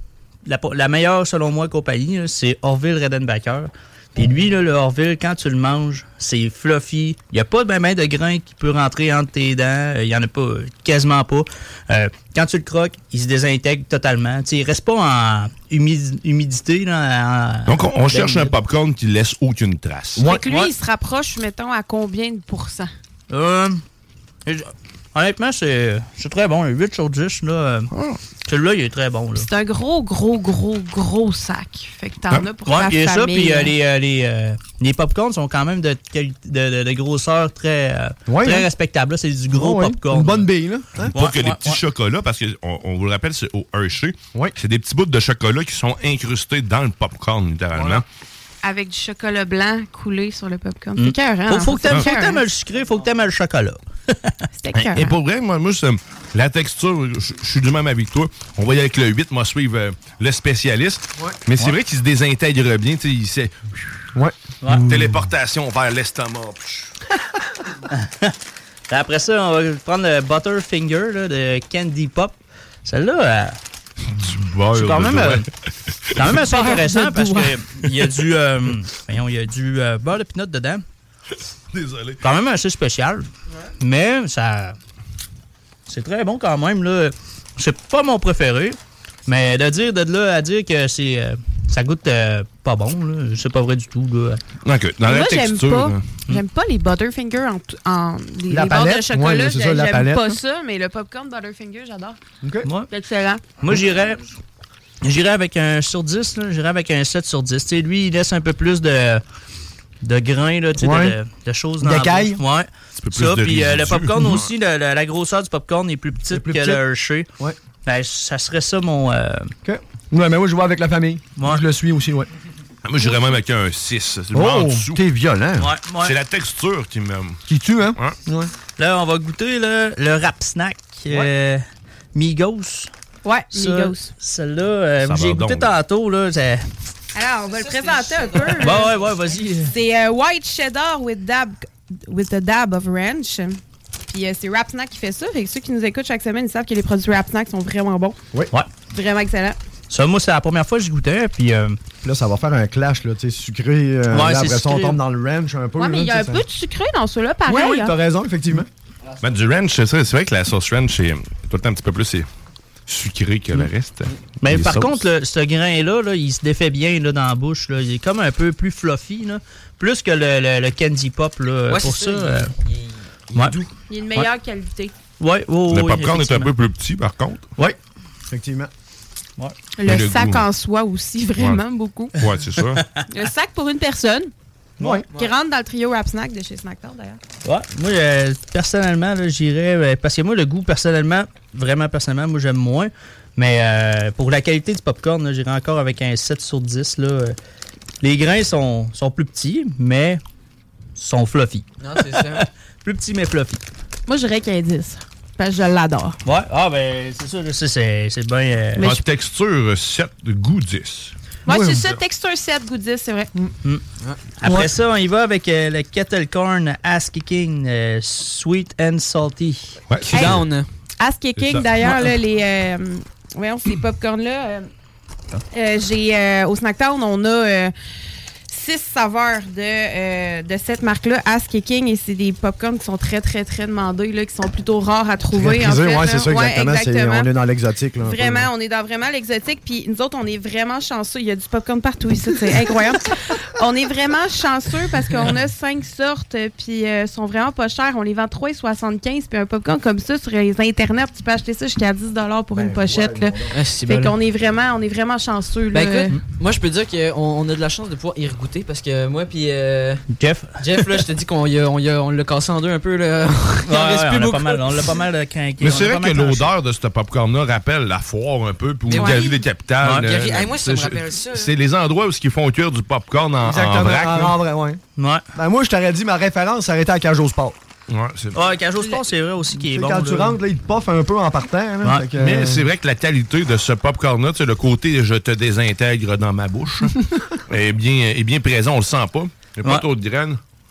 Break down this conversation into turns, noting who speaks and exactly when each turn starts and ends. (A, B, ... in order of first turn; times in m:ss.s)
0:00.4-0:18.5 A
0:17.7-0:20.3 B
0:20.2-0:20.4 C
0:20.2-0:22.9 D
0:20.5-0:20.7 A
0:23.3-0:23.8 A
0:24.4-0:27.9 A
0:27.9-0:28.2 B
0:28.4-0:29.5 A
0:29.3-0:33.7 D
0:32.6-0:40.5 A
0:38.3-0:38.6 C
0:39.5-0:41.1 C
0:41.1-0:41.8 A
0:41.1-0:48.0 B
0:48.6-0:52.5 D
0:51.0-0:54.4 A
0:54.6-0:55.2 D
0:54.7-1:03.9 B
1:04.1-1:05.2 C
1:04.6-1:04.9 A
1:04.7-1:06.9 B
1:07.9-1:08.3 A
1:08.9-1:13.6 A
1:14.1-1:15.4 B
1:14.7-1:15.4 A
1:16.2-1:20.8 A
1:16.4-1:17.6 D
1:21.7-1:22.2 B
1:22.2-1:23.3 A
1:23.8-1:24.8 A
1:25.9-1:34.4 A
1:34.6-1:36.2 B
1:35.0-1:42.2 D
1:38.5-1:40.4 C
1:42.4-1:42.7 C
1:42.9-1:43.5 D
1:43.6-1:44.3 A
1:45.0-1:49.2 A
1:50.0-1:57.3 A
1:50.8-1:51.1 C
1:51.8-1:52.4 C
1:53.0-1:54.5 B
1:56.3-1:56.8 C
1:57.8-1:59.5 A
1:59.6-2:02.3 C
2:01.4-2:01.6 A
2:02.8-2:05.0 B
2:03.0-2:03.3 D
2:04.3-2:05.7 C
2:05.6-2:06.1 A
2:06.0-2:07.4 B
2:07.5-2:08.5 C
2:08.8-2:11.6 A
2:12.1-2:12.9 A
2:13.2-2:14.1 D
2:13.5-2:16.6 A
2:15.0-2:15.7 B
2:17.1-2:19.0 D
2:17.4-2:19.6 E
2:18.6-2:19.7 A
2:19.6-2:28.2 D
2:28.8-2:29.6 D
2:29.9-2:31.8 A
2:32.0-2:36.4 C
2:34.1-2:35.0 A
2:35.8-2:37.9 D
2:37.4-2:38.7 C
2:39.2-2:42.2 B
2:42.9-2:45.0 B
2:44.4-2:52.5 A
2:51.7-2:53.4 E
2:53.3-2:53.6 A
2:53.9-2:54.9 D
2:55.2-2:56.5 A
2:55.7-2:57.5 B
2:58.3-2:58.7 C
2:59.8-3:02.1 D
2:59.8-3:00.4 B
3:02.2-3:02.8 B
3:03.1-3:04.3 D
3:04.8-3:05.0 A
3:04.8-3:05.0 C
3:05.1-3:07.2 D
3:07.4-3:17.4 A
3:18.0-3:20.2 A
3:21.0-3:23.6 A
3:21.8-3:22.4 E
3:24.1-3:26.2 D
3:26.2-3:28.9 A
3:28.8-3:31.1 B
3:31.4-3:33.3 D
3:31.5-3:31.8 C
3:31.7-3:32.0 B
3:34.4-3:39.7 A
3:34.4-3:34.7 C
3:39.9-3:40.4 B
3:40.1-3:40.7 E
3:41.0-3:44.7 D
3:41.4-3:41.7 B
3:45.5-3:47.7 D
3:48.5-3:57.3 D
3:55.3-3:58.5 C
3:58.0-4:16.2 D
4:12.5-4:13.5 C
4:13.5-4:14.2 E
4:15.7-4:20.0 E
4:20.1-4:21.0 A
4:20.6-4:25.0 E
4:23.6-4:26.5 A
4:25.6-4:34.4 B
4:28.9-4:29.4 D
4:28.9-4:29.3 E
4:29.8-4:30.1 A
4:29.9-4:31.5 E
4:33.4-4:34.8 C
4:35.0-4:35.2 A
4:35.3-4:37.6 C
4:37.9-4:38.5 B
4:38.3-4:40.4 A
4:39.7-4:42.6 C
4:41.8-4:42.1 A
4:42.2-4:47.0 B
4:47.5-4:50.4 B